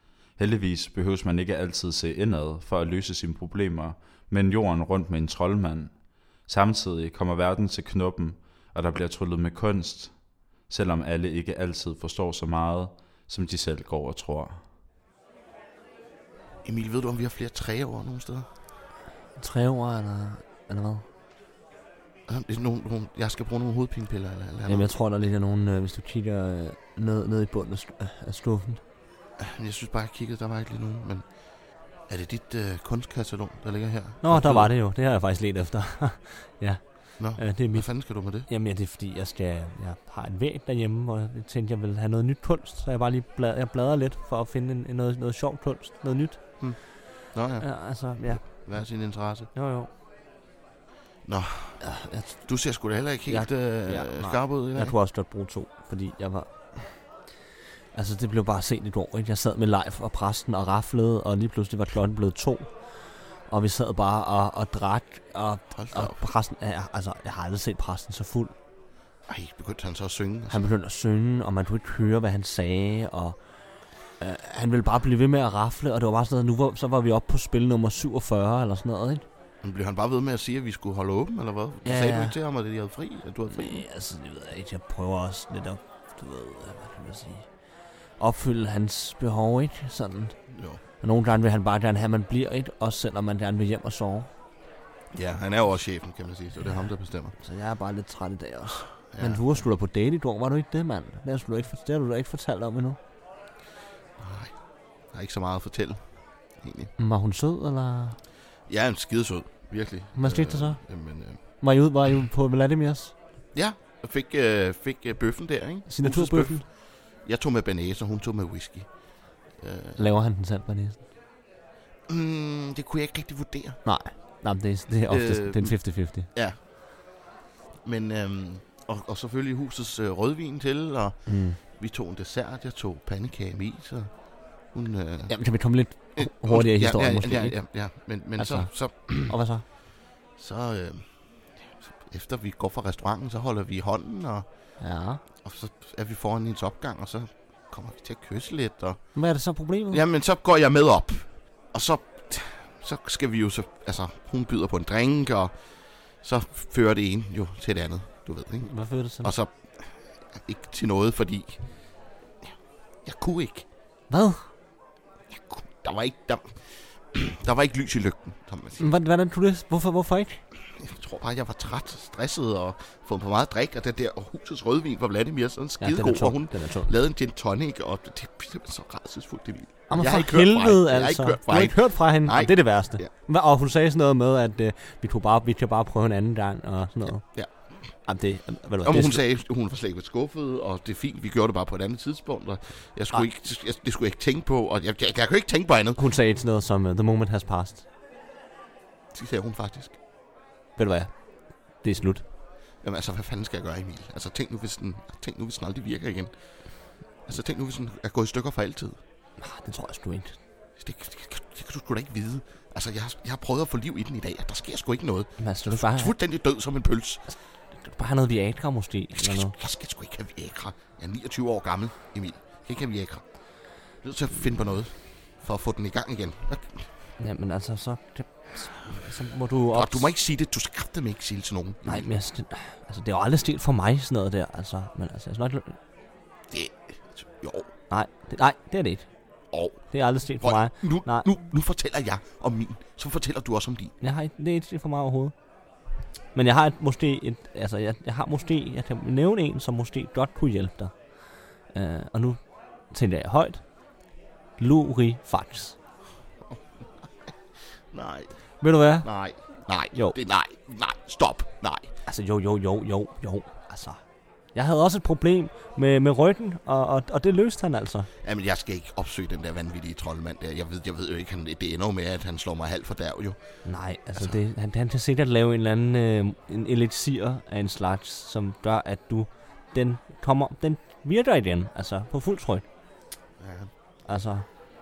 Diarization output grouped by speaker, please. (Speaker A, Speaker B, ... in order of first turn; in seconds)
Speaker A: 0.4-10.2, 10.7-14.6
Speaker B: 16.6-18.5, 22.3-24.9, 29.4-31.2, 32.1-34.7, 37.2-38.5, 47.3-49.5, 51.2-51.8, 52.4-55.0, 65.8-66.2, 69.3-70.6, 79.6-83.8, 90.5-90.8, 95.1-97.3, 99.1-99.4, 104.2-104.5, 105.1-106.9, 108.7-111.4, 113.5-118.9, 119.6-120.0, 122.1-123.8, 125.1-126.6, 127.8-134.1, 134.7-135.3, 135.9-139.3, 140.4-141.1, 141.9-144.4, 145.4-149.1, 149.9-155.5, 156.2-161.8, 163.1-163.7, 165.3-168.9, 170.8-183.1, 187.2-187.5, 188.8-196.0, 199.1-199.9, 202.8-206.3, 207.2-209.0, 210.8-217.2, 219.2-223.2, 224.0-226.9, 229.7-232.1, 236.5-237.7, 239.5-239.8, 240.4-243.9, 257.9-258.3, 259.0-261.9, 268.2-273.4, 283.4-283.7
Speaker C: 19.4-21.1, 24.7-28.8, 34.2-37.9, 38.5-46.4, 47.6-48.9, 49.5-49.9, 51.8-52.5, 53.3-57.1, 57.9-62.9, 63.5-68.5, 70.5-73.4, 74.2-79.2, 81.8-82.3, 83.5-87.5, 88.2-90.4, 91.0-94.3, 97.4-103.0, 107.0-108.2, 110.1-110.8, 111.6-113.1, 115.9-116.6, 120.0-121.0, 123.8-126.3, 131.2-131.6, 135.3-137.6, 138.4-139.6, 144.8-145.2, 149.1-150.0, 158.6-159.3, 164.1-164.4, 168.8-170.4, 175.8-176.9, 179.9-187.2, 188.0-189.2, 195.9-197.8, 200.8-202.2, 209.4-210.4, 215.4-216.1, 217.8-219.6, 227.2-230.1, 231.8-235.8, 237.9-239.1, 239.9-241.3, 244.0-245.3, 246.3-250.9, 251.7-252.4, 252.9-253.6, 254.6-255.8, 258.6-259.1, 262.1-264.0, 264.5-268.1, 273.6-282.6, 284.1-284.5